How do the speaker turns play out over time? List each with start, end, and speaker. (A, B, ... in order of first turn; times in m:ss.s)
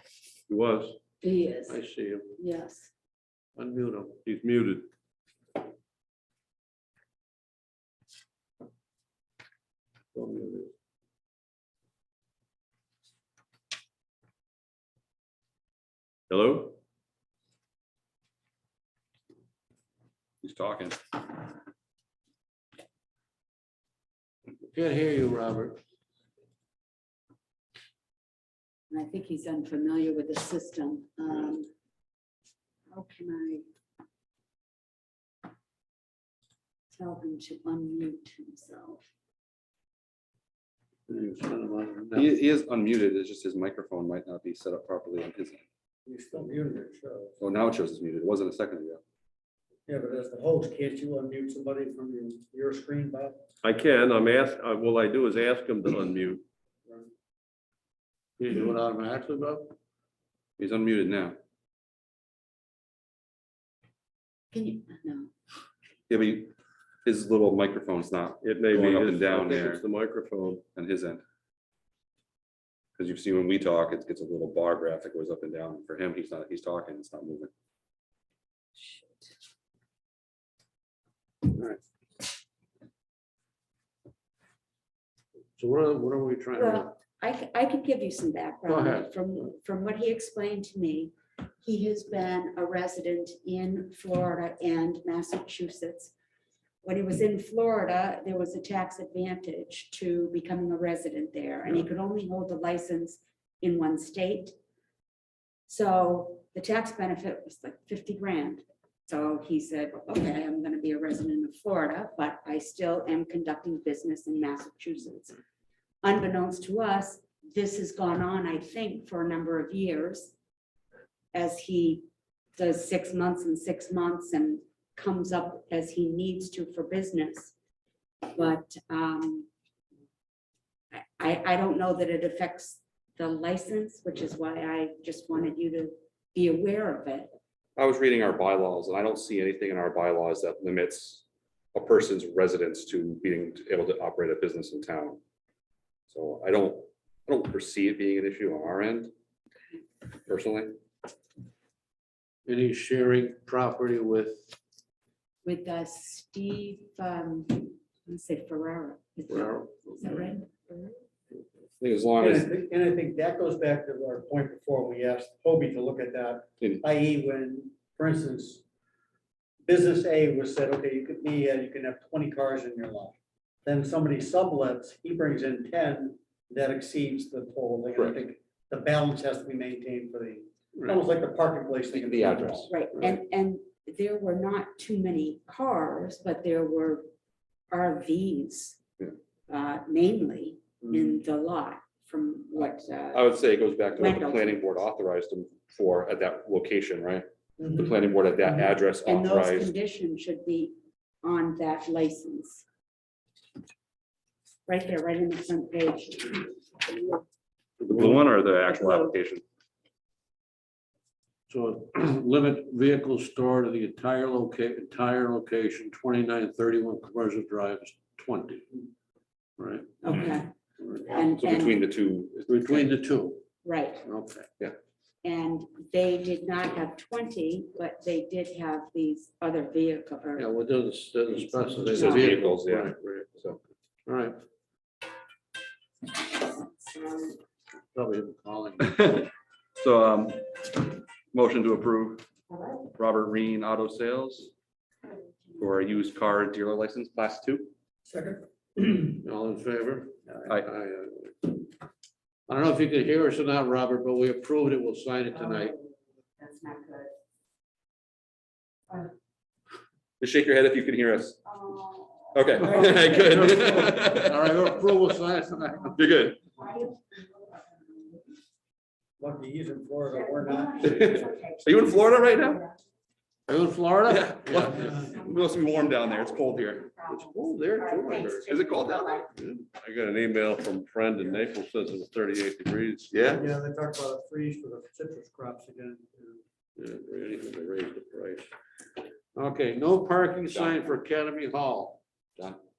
0:00.5-0:01.0 A
0:01.2-0:01.8 B
0:01.7-0:02.4 C
0:02.4-0:02.9 B
0:03.6-0:04.2 C
0:04.2-0:04.9 A
0:10.1-0:10.7 C
0:16.3-0:16.7 A
0:20.4-0:21.0 D
0:24.7-0:25.8 C
0:28.9-0:31.7 B
0:32.9-0:33.6 B
0:36.9-0:39.0 B
0:41.1-0:42.3 C
0:42.1-0:45.6 D
0:46.0-0:47.4 E
0:47.4-0:49.0 D
0:49.9-0:53.4 E
0:53.6-0:56.4 A
0:58.4-0:59.7 C
1:00.6-1:01.4 D
1:04.5-1:05.3 B
1:06.1-1:06.5 D
1:07.0-1:09.8 D
1:08.4-1:10.6 A
1:10.7-1:11.2 D
1:13.0-1:17.5 D
1:18.8-1:19.3 B
1:21.4-1:21.8 C
1:25.6-1:26.9 C
1:26.5-1:36.1 B
1:28.7-1:29.1 C
1:36.8-1:44.5 B
1:45.7-1:55.3 B
1:56.0-2:00.3 B
2:01.3-2:02.0 B
2:02.6-2:07.5 B
2:08.3-2:09.5 B
2:11.2-2:17.3 B
2:17.8-2:25.2 D
2:26.1-2:29.1 D
2:30.3-2:30.8 D
2:32.4-2:34.6 C
2:35.4-2:41.0 B
2:39.3-2:40.3 C
2:41.8-2:42.5 D
2:42.2-2:48.6 E
2:49.6-2:53.1 E
2:53.6-3:02.7 E
2:58.0-2:58.2 D
3:01.9-3:02.7 D
3:02.7-3:07.0 B
3:07.7-3:08.8 B
3:09.5-3:13.3 B
3:13.1-3:19.7 D
3:14.0-3:14.6 B
3:19.0-3:22.6 B
3:24.7-3:27.0 B
3:27.8-3:29.4 D
3:28.6-3:29.1 B
3:31.5-3:38.7 C
3:39.6-3:40.2 C
3:40.0-3:40.5 B
3:41.0-3:41.8 B
3:41.1-3:42.8 D
3:42.5-3:43.4 C
3:43.6-3:44.0 B
3:44.0-3:44.5 C
3:45.2-3:50.5 B
3:50.4-3:54.4 C
3:51.9-3:53.5 D
3:51.9-3:52.4 B
3:56.9-3:57.3 B
3:57.9-3:59.0 C
3:58.8-4:00.8 D
4:01.3-4:02.2 D
4:02.9-4:04.5 D
4:05.6-4:07.7 D
4:08.0-4:09.1 E
4:09.1-4:11.6 C
4:12.5-4:15.7 C
4:15.4-4:17.1 B
4:20.2-4:21.4 D
4:21.4-4:23.8 B
4:22.3-4:24.6 D
4:22.7-4:26.0 C
4:25.9-4:26.4 D
4:26.6-4:28.0 B
4:29.2-4:30.8 E
4:30.2-4:32.7 B
4:30.8-4:32.6 D
4:33.5-4:35.1 C
4:34.1-4:36.9 D
4:34.8-4:35.1 E
4:36.8-4:39.2 B
4:37.1-4:38.5 C
4:38.4-4:39.3 D
4:39.3-4:39.6 C
4:39.7-4:43.2 A
4:43.1-4:43.4 D
4:43.3-4:46.4 E
4:46.8-4:48.5 C
4:49.3-4:52.0 C
4:50.5-4:50.8 D